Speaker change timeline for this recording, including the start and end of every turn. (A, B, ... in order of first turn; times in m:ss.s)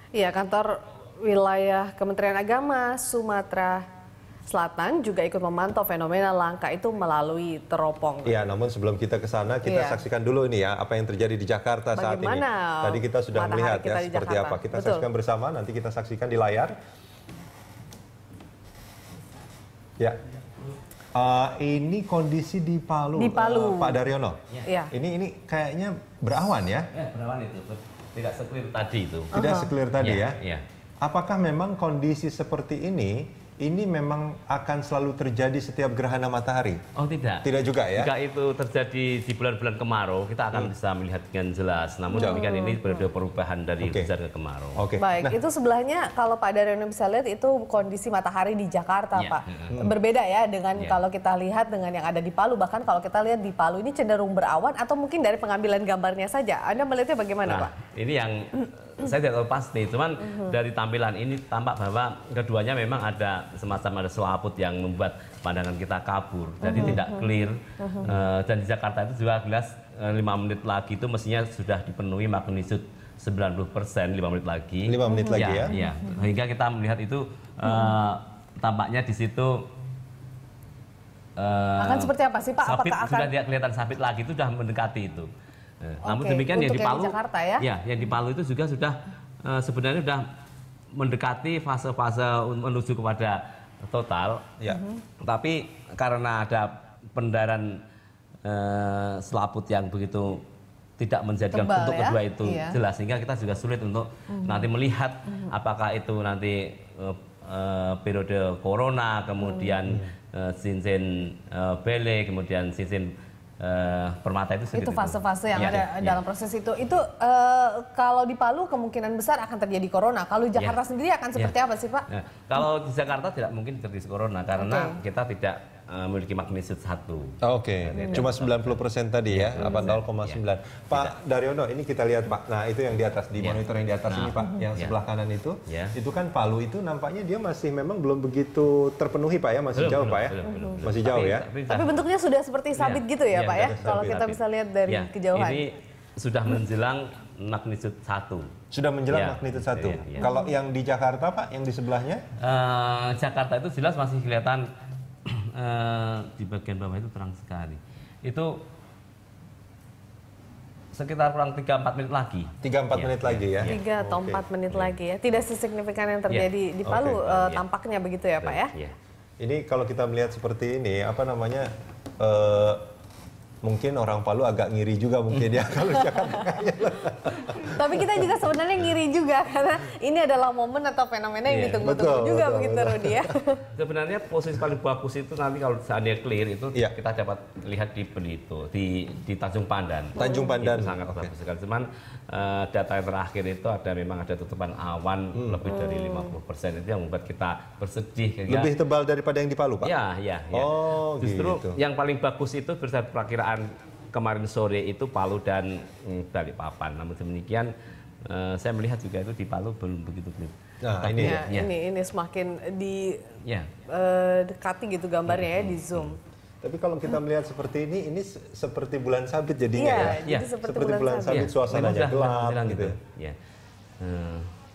0:00.1-0:03.8 A
0:04.5-0:08.4 A
0:08.2-0:16.8 B
0:09.6-0:10.0 A
0:12.0-0:15.1 A
0:21.1-0:24.4 B
0:23.2-0:24.1 A
0:24.6-0:24.9 A
0:24.9-0:26.9 B
0:26.9-0:29.3 C
0:29.3-0:29.7 A
0:29.3-0:30.4 B
0:30.0-0:30.6 C
0:31.0-0:36.8 B
0:37.0-0:44.8 C
0:37.4-0:38.1 B
0:42.1-0:43.0 A
0:42.2-0:42.4 B
0:43.8-0:44.1 B
0:44.8-0:45.4 B
0:45.0-0:57.8 A
0:49.1-0:49.7 C
0:57.4-1:19.6 C
1:00.2-1:00.6 A
1:06.6-1:08.1 A
1:14.8-1:15.8 B
1:15.1-1:15.5 A
1:17.6-1:17.9 A
1:21.4-1:25.3 C
1:21.8-1:23.3 A
1:25.8-1:30.2 C
1:26.0-1:27.7 A
1:30.9-1:34.5 C
1:34.7-1:35.0 A
1:35.2-1:37.8 C
1:38.4-1:40.4 C
1:41.0-1:56.2 C
1:41.5-1:42.8 A
1:44.3-1:44.7 A
1:49.4-1:49.8 A
1:54.7-2:02.1 A
2:02.1-2:08.8 C
2:04.6-2:05.0 A
2:07.4-2:21.5 B
2:08.0-2:08.2 A
2:09.3-2:10.4 C
2:09.6-2:10.0 A
2:13.4-2:15.0 C
2:15.7-2:16.0 C
2:19.8-2:22.1 C
2:20.4-2:20.8 A
2:21.7-2:25.6 A
2:22.8-2:28.5 C
2:23.6-2:24.3 B
2:28.7-2:32.2 B
2:29.1-2:30.3 C
2:30.2-2:30.5 A
2:32.4-2:34.7 C
2:35.3-2:38.6 C
2:40.9-2:43.8 C
2:42.6-2:44.4 B
2:43.6-2:48.7 A
2:44.7-2:45.0 C
2:46.8-2:47.2 B
2:47.1-2:47.6 C
2:48.4-2:49.0 C
2:49.4-2:52.8 B
2:53.6-2:58.2 B
2:55.9-2:56.6 A
2:57.6-3:03.6 A
3:01.5-3:01.9 C
3:01.8-3:03.3 B
3:03.8-3:18.7 C
3:10.2-3:10.6 A
3:10.2-3:11.3 B
3:15.3-3:15.6 B
3:15.6-3:16.4 A
3:18.5-3:19.9 B
3:19.8-3:27.7 C
3:20.5-3:21.8 B
3:28.2-3:31.7 C
3:30.8-3:31.4 B
3:31.2-3:33.3 A
3:33.4-3:33.7 C
3:33.9-3:36.2 A
3:35.3-3:36.2 C
3:36.6-3:43.0 B
3:39.8-3:41.5 A
3:39.9-3:40.5 C
3:41.3-3:43.4 C
3:44.0-3:44.5 C